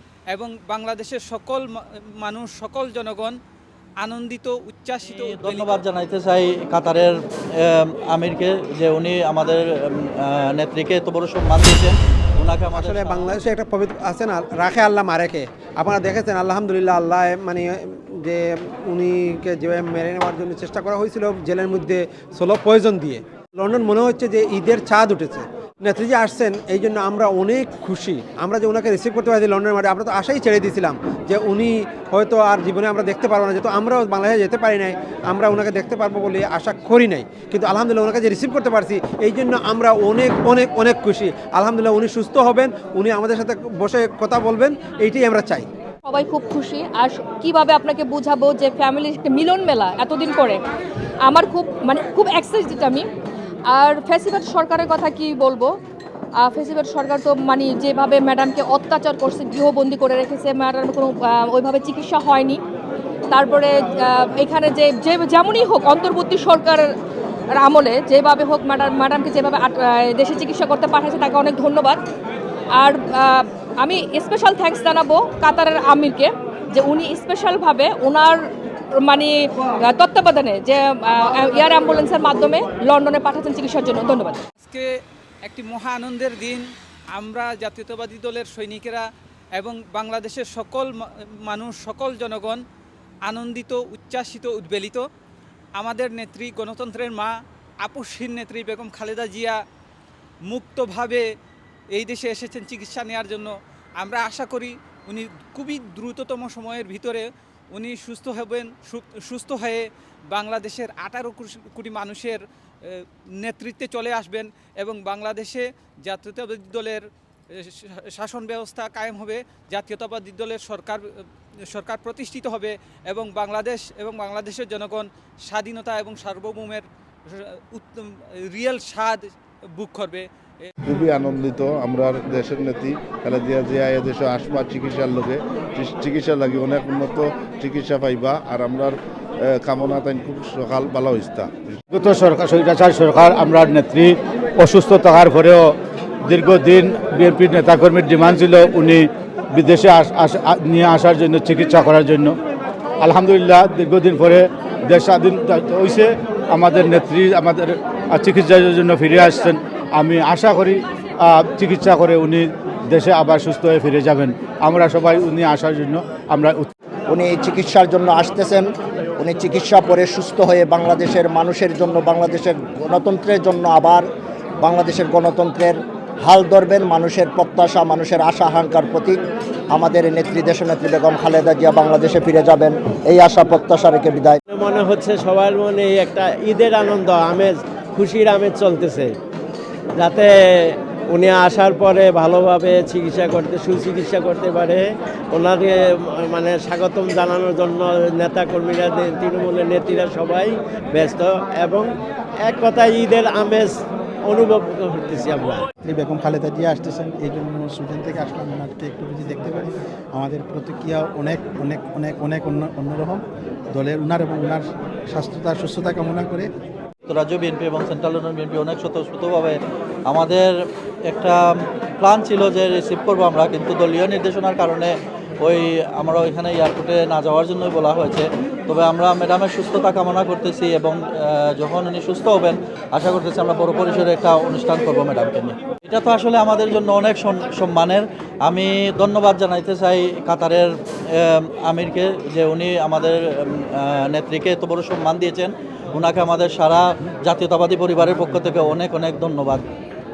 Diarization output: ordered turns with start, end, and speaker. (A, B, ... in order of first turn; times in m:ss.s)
0:00.3-0:01.6 A
0:02.2-0:03.3 A
0:04.0-0:05.8 A
0:05.0-0:13.4 B
0:12.7-0:45.7 C
0:46.0-0:50.6 D
0:51.2-0:53.0 D
0:53.7-0:55.7 D
0:56.4-1:02.6 D
1:03.3-1:06.9 D
1:07.6-1:12.0 D
1:12.8-1:18.4 D
1:19.0-1:24.4 D
1:24.6-1:24.9 A
1:25.4-1:29.0 A
1:29.6-1:32.6 A
1:33.2-1:35.0 A
1:35.8-1:39.6 A
1:40.5-1:41.2 A
1:41.9-2:09.2 A
2:09.8-2:10.7 A
2:10.9-2:21.7 E
2:21.9-2:25.7 F
2:26.3-2:32.4 F
2:33.0-2:46.7 F
2:47.1-2:48.7 G
2:49.2-2:54.0 G
2:54.6-2:59.2 G
2:59.7-3:04.4 G
3:04.5-3:09.1 H
3:10.0-3:10.3 H
3:11.1-3:21.9 H
3:22.4-3:23.7 H
3:24.3-3:25.7 H
3:25.8-3:36.5 I
3:37.1-3:39.6 B
3:40.1-3:40.5 B
3:41.1-3:41.4 B
3:42.0-3:44.9 B
3:45.4-4:09.6 B